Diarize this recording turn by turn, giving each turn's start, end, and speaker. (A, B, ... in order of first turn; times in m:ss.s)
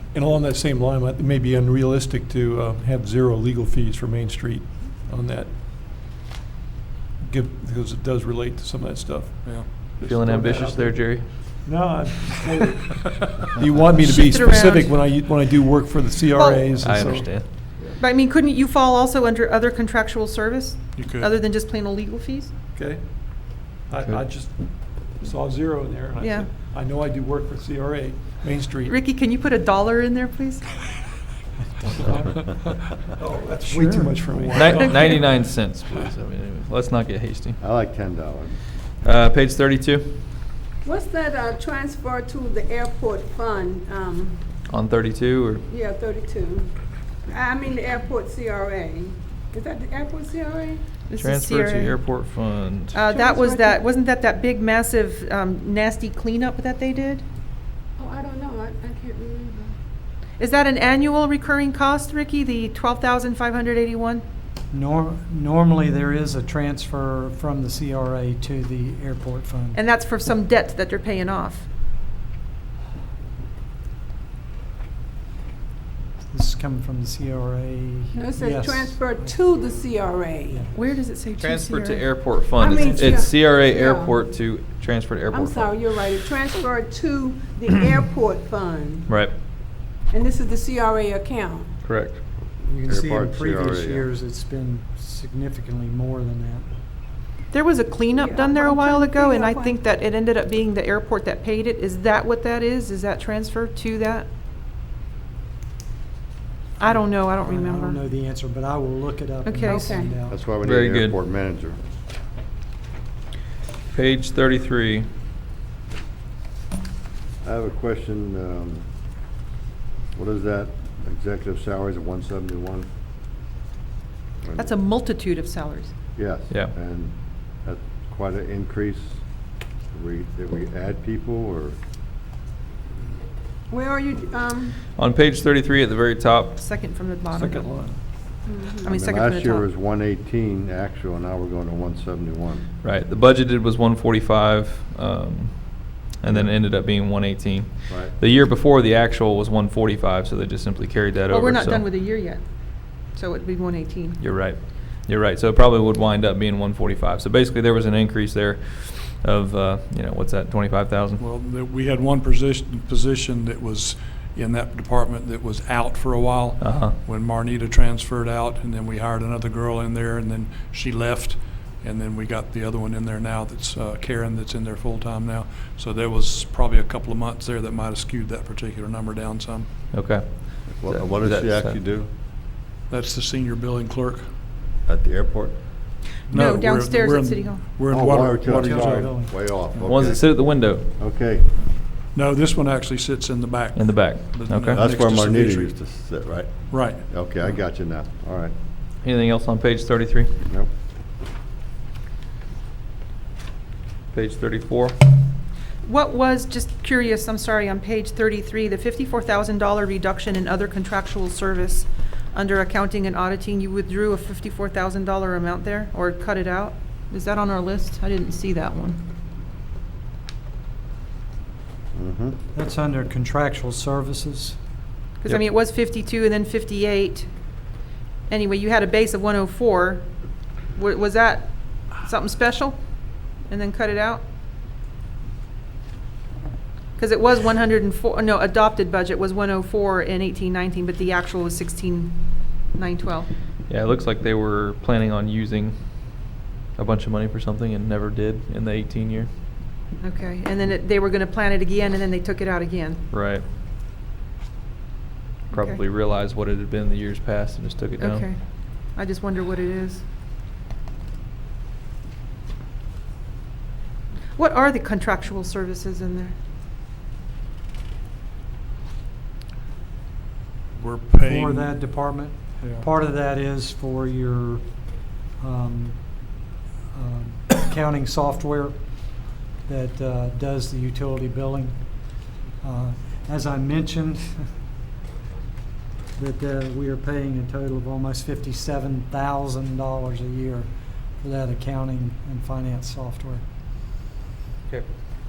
0:00.1-0:05.5 A
0:07.2-0:18.0 A
0:09.4-0:09.8 B
0:10.0-0:11.6 C
0:14.0-0:14.9 D
0:16.4-0:17.3 D
0:16.8-0:17.5 C
0:18.0-0:22.5 D
0:21.0-0:21.3 B
0:22.8-0:29.0 A
0:26.2-0:26.5 D
0:28.9-0:30.6 D
0:32.0-0:35.5 A
0:33.6-0:34.9 E
0:34.5-0:37.6 C
0:37.6-0:38.6 F
0:39.0-0:40.2 C
0:40.8-0:44.4 G
0:44.7-0:45.6 C
0:45.7-0:46.8 G
0:47.3-0:50.8 G
0:51.1-0:52.0 D
0:51.2-0:53.0 C
0:52.9-0:57.2 D
0:53.1-0:53.8 G
0:58.0-0:59.8 G
1:00.4-1:04.2 D
1:04.7-1:09.8 E
1:09.7-1:11.7 D
1:16.3-1:19.4 E
1:18.2-1:20.6 G
1:20.4-1:20.7 E
1:20.7-1:22.0 D
1:21.4-1:26.1 C
1:22.6-1:24.2 G
1:22.8-1:23.1 E
1:25.3-1:29.1 G
1:29.1-1:29.4 C
1:30.1-1:31.7 G
1:31.8-1:32.2 C
1:32.6-1:36.7 E
1:32.8-1:34.0 F
1:37.5-1:44.3 D
1:38.1-1:39.8 G
1:46.8-1:50.4 E
1:46.8-1:48.0 D
1:49.4-1:50.0 D
1:49.7-1:50.1 G
1:50.3-1:51.8 F
1:50.6-1:51.2 C
1:53.9-1:55.1 C
1:57.4-1:58.8 F
2:00.2-2:02.9 F
2:04.4-2:04.7 F
2:04.6-2:05.9 D
2:06.2-2:09.2 F
2:09.9-2:11.8 F
2:13.7-2:14.8 G
2:15.0-2:16.6 C
2:16.6-2:17.7 D
2:17.3-2:18.0 A
2:18.4-2:18.8 G
2:18.8-2:19.7 D
2:18.9-2:22.7 F
2:22.8-2:31.8 C
2:26.3-2:26.5 F
2:27.9-2:28.2 F
2:31.3-2:32.5 D
2:33.1-2:34.2 D
2:34.2-2:41.2 C
2:41.2-2:59.7 B
2:46.6-2:47.0 C
2:59.9-3:01.8 C
3:00.8-3:02.1 F
3:02.9-3:04.3 B
3:04.8-3:05.6 F
3:06.3-3:09.1 B
3:06.3-3:07.6 D
3:07.9-3:11.6 F
3:08.4-3:09.6 E
3:09.7-3:10.9 C
3:12.2-3:15.7 B
3:13.7-3:14.8 C
3:14.7-3:18.5 F
3:16.7-3:17.0 B
3:19.0-3:20.3 C
3:24.1-3:25.0 C
3:25.8-3:39.0 D
3:42.0-3:42.4 F
3:42.5-3:44.6 E
3:45.2-3:47.3 D
3:48.3-3:50.1 D
3:50.8-3:52.8 D
3:53.5-3:54.2 D
3:57.0-4:03.3 D
4:03.7-4:09.3 C
4:10.0-4:13.0 D
4:13.1-4:13.4 C
4:15.5-4:18.3 C
4:15.5-4:15.8 D
4:18.0-4:20.0 D
4:24.4-4:26.4 D
4:30.8-4:31.8 B
4:31.2-4:34.6 E
4:35.4-4:36.4 E
4:36.9-4:38.8 E
4:39.3-4:44.4 E
4:46.2-4:50.7 E
4:51.2-4:53.4 E